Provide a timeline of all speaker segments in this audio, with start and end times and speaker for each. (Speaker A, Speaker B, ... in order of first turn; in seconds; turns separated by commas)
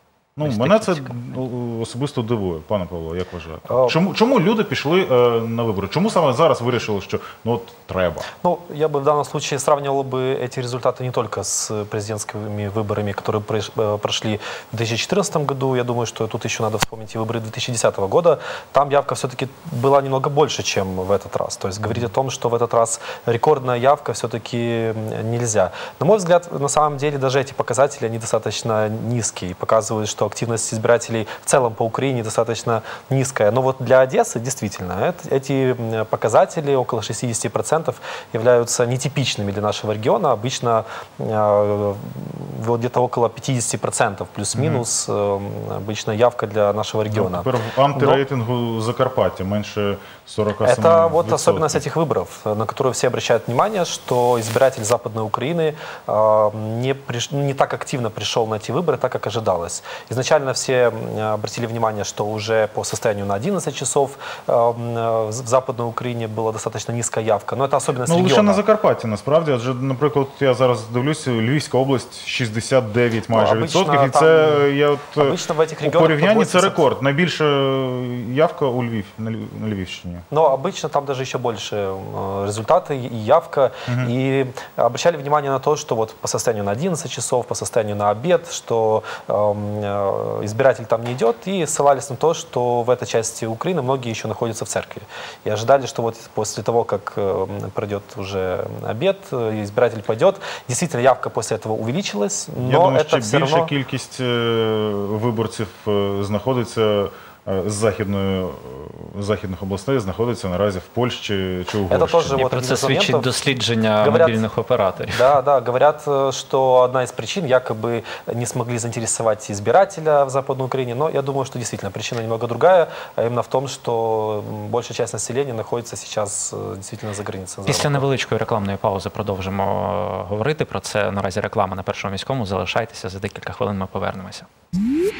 Speaker A: 0.4-8.3, Speaker B: 0.4-1.2, Speaker C: 3.7-4.0, Speaker C: 8.4-48.2, Speaker A: 44.6-44.8, Speaker A: 47.1-51.8, Speaker C: 50.6-68.6, Speaker A: 68.1-80.2, Speaker C: 73.3-76.8, Speaker C: 80.3-103.7, Speaker A: 102.6-112.4, Speaker C: 111.9-113.4, Speaker B: 112.4-115.3, Speaker C: 114.0-114.4, Speaker C: 115.0-128.1, Speaker B: 127.7-134.5